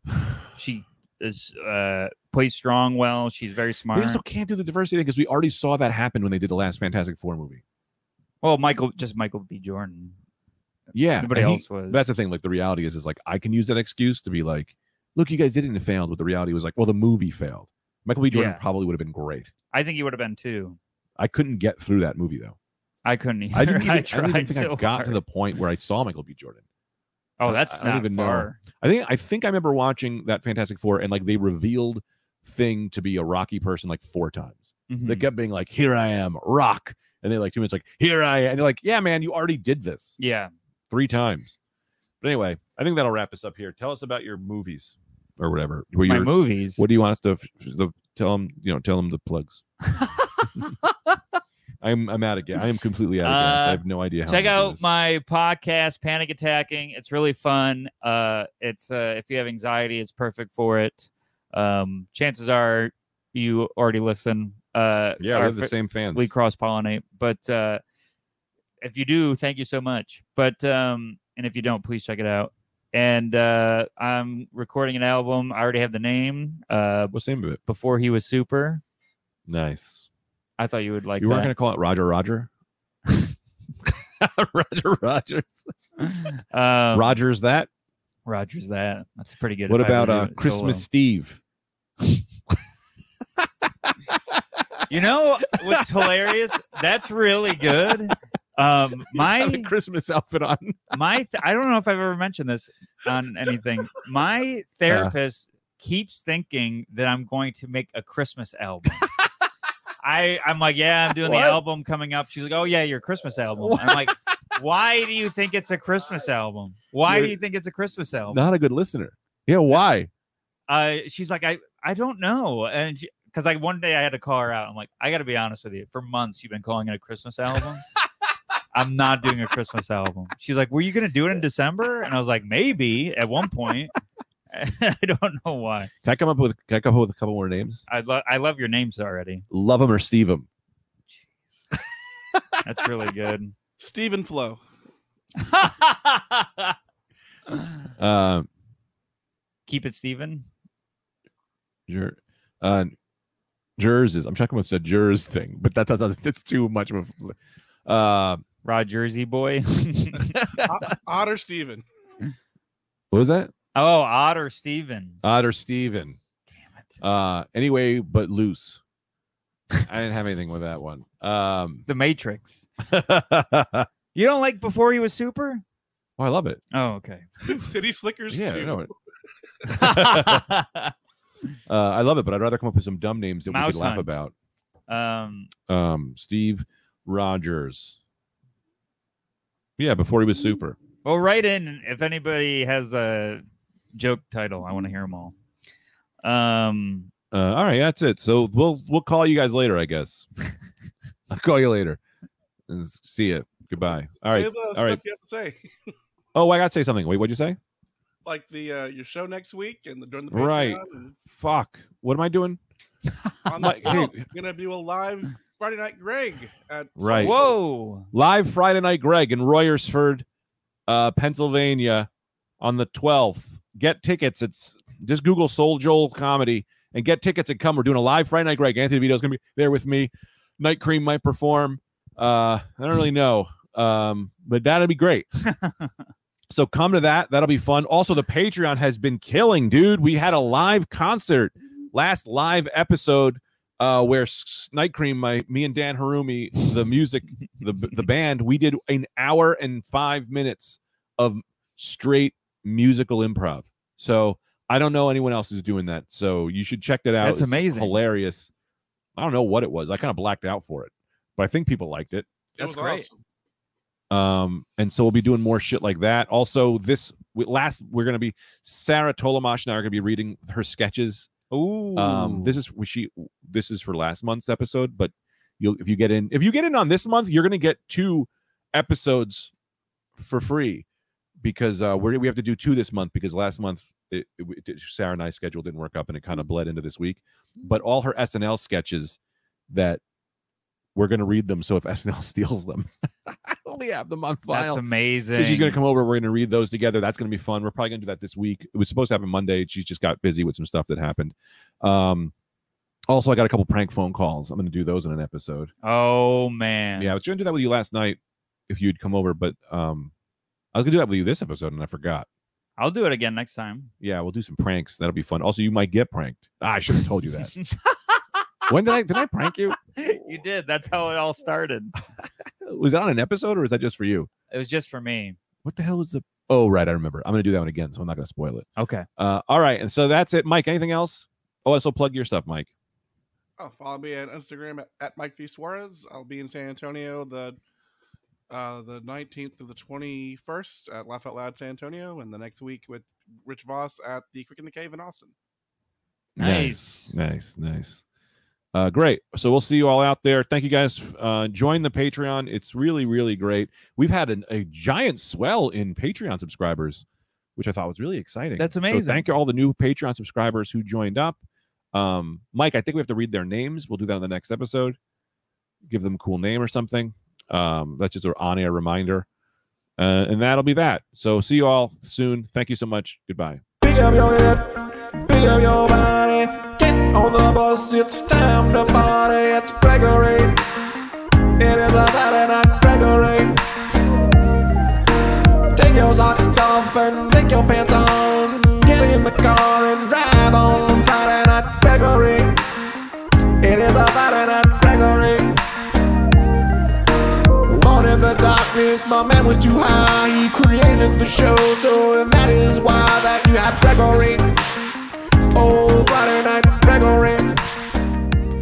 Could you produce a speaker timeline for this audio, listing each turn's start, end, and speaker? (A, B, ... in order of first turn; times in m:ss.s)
0:00.5-0:04.2 A
0:03.9-0:07.6 B
0:08.4-0:10.2 A
0:10.9-0:19.5 B
0:11.2-0:12.0 A
0:18.3-0:18.6 A
0:19.7-0:20.8 A
0:21.2-0:22.6 B
0:23.0-0:25.2 A
0:23.5-0:26.6 B
0:27.4-0:28.6 A
0:27.4-0:40.2 B
0:34.9-0:35.2 A
0:40.2-0:40.5 A
0:40.9-0:41.6 B
0:42.2-0:49.6 B
0:46.0-0:46.8 A
0:49.8-0:50.7 A
0:51.8-0:54.9 B
0:53.2-1:07.8 A
1:05.2-1:06.3 B
1:08.8-1:17.1 A
1:17.1-1:17.6 B
1:17.7-1:18.8 A
1:19.5-1:20.0 B
1:20.6-1:21.5 A
1:21.2-1:22.5 B
1:23.8-1:25.7 B
1:26.0-1:27.2 A
1:26.9-1:27.7 B
1:28.2-1:30.8 A
1:29.7-1:31.4 B
1:33.8-1:34.3 B
1:34.9-1:39.7 A
1:35.7-1:36.1 B
1:39.0-1:40.8 B
1:40.9-1:49.1 A
1:44.8-1:45.1 B
1:50.0-1:58.4 A
1:51.2-1:51.6 B
1:53.6-1:54.2 B
1:57.1-1:57.4 B
1:58.3-2:00.1 B
2:00.7-2:07.8 A
2:08.7-2:13.9 A
2:14.5-2:15.9 A
2:16.0-2:17.8 B
2:17.9-2:19.4 A
2:19.5-2:20.4 B
2:21.1-2:21.6 A
2:22.6-2:23.5 A
2:23.8-2:24.6 C
2:25.4-2:26.7 A
2:27.5-2:27.8 A
2:28.0-2:28.5 B
2:29.7-2:30.5 A
2:31.9-2:32.9 B
2:33.8-2:38.4 B
2:38.6-2:40.4 A
2:40.3-2:40.7 B
2:40.6-2:41.8 C
2:43.1-2:43.5 B
2:43.7-2:45.2 A
2:45.2-2:46.2 B
2:47.0-2:48.8 B
2:49.8-2:51.9 B
2:51.9-2:52.7 A
2:52.8-2:53.9 B
2:54.1-2:55.6 A
2:56.2-2:56.6 B
2:56.7-2:57.6 A
2:57.4-2:58.9 C
2:58.3-2:58.9 B
2:59.6-3:00.5 B
2:59.7-3:00.9 A
3:01.7-3:04.3 B
3:03.5-3:04.2 A
3:04.9-3:05.5 A
3:05.7-3:08.0 B
3:09.8-3:10.8 B
3:11.0-3:13.4 A
3:13.9-3:15.4 A
3:16.2-3:17.1 A
3:17.3-3:20.3 B
3:21.3-3:22.0 B
3:22.7-3:25.0 B
3:24.3-3:25.9 C
3:26.3-3:27.6 B
3:28.2-3:31.2 C
3:30.3-3:32.6 B
3:33.3-3:34.0 A
3:33.5-3:37.6 C
3:33.6-3:34.2 B
3:37.0-3:37.4 B
3:37.2-3:38.1 A
3:38.1-3:40.2 B
3:40.9-3:42.1 B
3:42.6-3:55.3 B
3:55.4-3:55.9 A
3:56.5-4:18.5 B
4:17.2-4:18.0 A
4:19.2-4:23.1 B
4:22.6-4:23.1 C
4:24.1-4:31.3 B
4:31.5-4:32.6 A
4:32.0-4:39.5 B
4:40.2-4:40.8 B
4:41.4-4:49.2 B
4:49.7-4:50.0 B
4:50.9-4:54.8 B
4:54.5-4:55.8 A
4:55.3-5:02.3 B
5:03.1-5:05.7 B
5:05.8-5:07.1 A
5:07.0-5:10.1 B
5:10.7-5:12.3 B
5:12.8-5:13.9 A
5:14.0-5:17.6 B
5:17.5-5:19.2 A
5:18.7-5:19.8 B
5:19.8-5:21.9 A
5:22.6-5:24.3 B
5:24.5-5:25.4 A
5:25.6-5:32.7 B
5:28.8-5:29.1 A
5:33.6-5:37.6 C
5:38.5-5:45.3 C
5:46.4-5:48.0 B
5:46.4-5:47.1 A
5:48.7-5:57.0 B
5:57.6-6:01.4 B
5:58.6-5:59.2 A
6:01.9-6:05.0 B
6:05.8-6:09.2 B
6:10.0-6:13.6 B
6:13.8-6:20.6 D
6:21.6-6:23.6 D
6:25.7-6:32.6 D
6:33.6-6:35.6 D
6:37.7-6:44.6 D
6:45.5-6:47.7 D